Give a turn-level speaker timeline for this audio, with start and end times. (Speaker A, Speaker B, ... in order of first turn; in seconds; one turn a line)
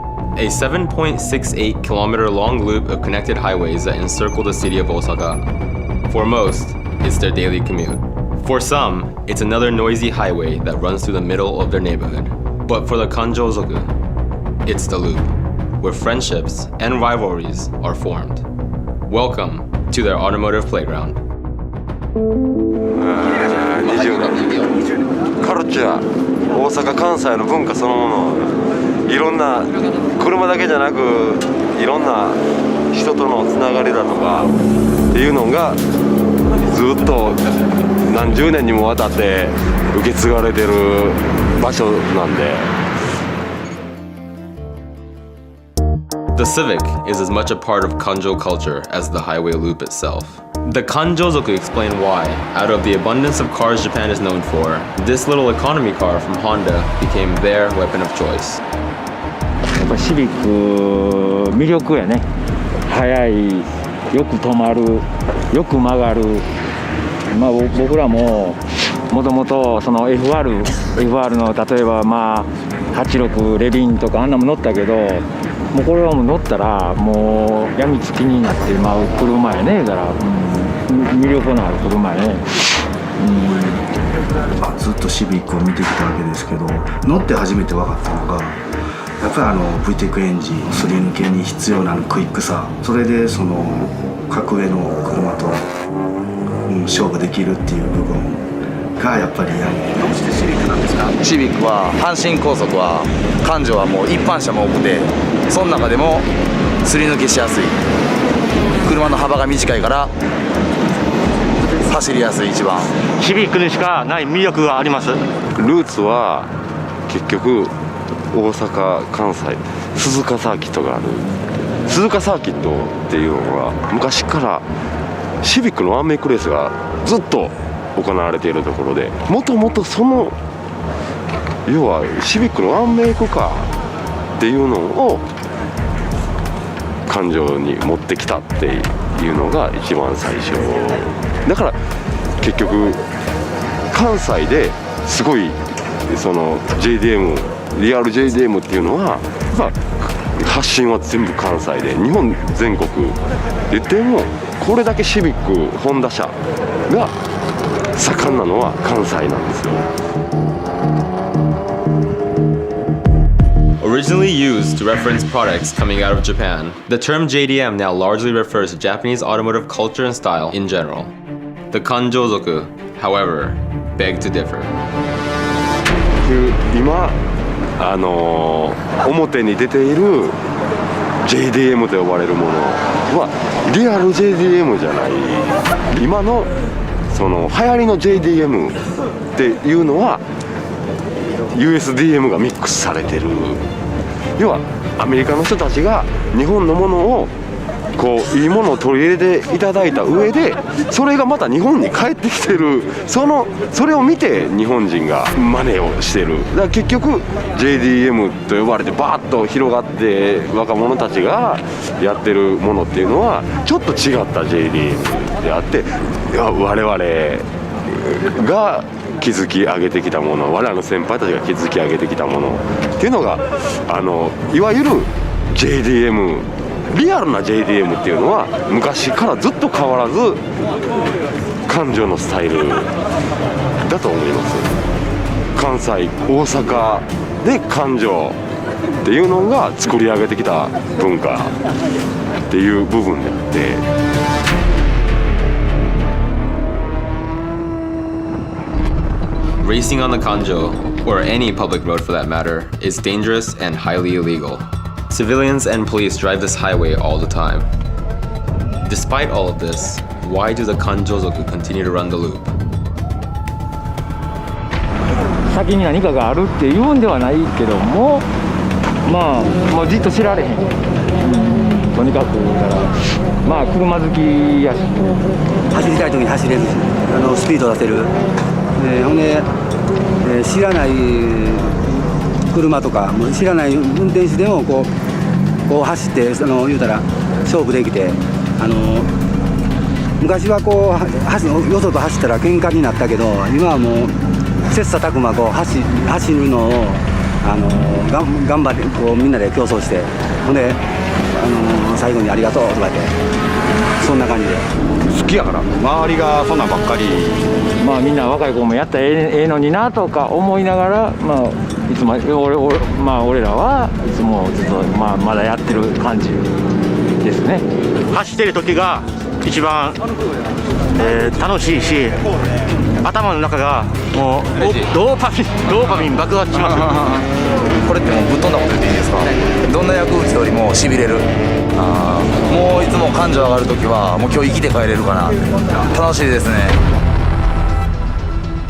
Speaker A: 0.3-5.4
Speaker A: 6.1-13.9
Speaker A: 14.6-18.4
Speaker A: 19.1-21.2
Speaker B: 22.9-24.7
Speaker B: 25.4-32.4
Speaker B: 32.9-34.5
Speaker B: 35.1-35.8
Speaker B: 36.6-37.4
Speaker B: 38.0-42.7
Speaker A: 46.3-58.6
Speaker C: 59.7-62.2
Speaker C: 62.8-66.5
Speaker C: 67.3-82.5
Speaker C: 83.2-83.8
Speaker D: 84.5-88.6
Speaker D: 89.2-95.7
Speaker D: 96.7-98.4
Speaker D: 99.0-100.2
Speaker E: 100.2-106.3
Speaker E: 106.8-107.8
Speaker E: 108.8-110.1
Speaker E: 111.8-112.9
Speaker F: 113.1-115.2
Speaker B: 115.5-116.5
Speaker B: 117.1-117.7
Speaker B: 118.3-121.3
Speaker B: 121.9-124.6
Speaker B: 125.4-130.3
Speaker B: 131.7-133.7
Speaker B: 134.4-135.2
Speaker B: 137.1-141.8
Speaker B: 142.4-143.0
Speaker B: 143.9-153.2
Speaker B: 153.7-156.3
Speaker B: 156.9-157.1
Speaker B: 157.9-159.9
Speaker A: 163.8-171.1
Speaker A: 171.7-174.7
Speaker B: 176.2-177.2
Speaker B: 177.8-180.4
Speaker B: 181.2-186.5
Speaker B: 187.1-188.8
Speaker B: 189.3-190.2
Speaker B: 191.3-193.6
Speaker B: 194.4-197.3
Speaker B: 197.9-230.4
Speaker B: 231.7-232.9
Speaker B: 233.8-234.7
Speaker B: 235.5-238.4
Speaker B: 239.0-241.6
Speaker B: 242.5-243.8
Speaker A: 249.6-257.7
Speaker A: 258.8-262.5
Speaker C: 265.4-268.2
Speaker C: 269.0-275.1
Speaker G: 275.7-278.1
Speaker G: 278.8-279.5
Speaker G: 280.2-282.0
Speaker G: 282.5-284.9
Speaker G: 285.7-289.1
Speaker G: 290.2-294.1
Speaker G: 294.7-300.8
Speaker G: 301.3-303.1
Speaker G: 304.0-304.6
Speaker E: 305.1-307.5
Speaker C: 307.8-316.4
Speaker C: 317.2-317.6
Speaker F: 318.1-320.0
Speaker F: 320.9-322.2
Speaker F: 323.0-327.2
Speaker E: 327.8-336.8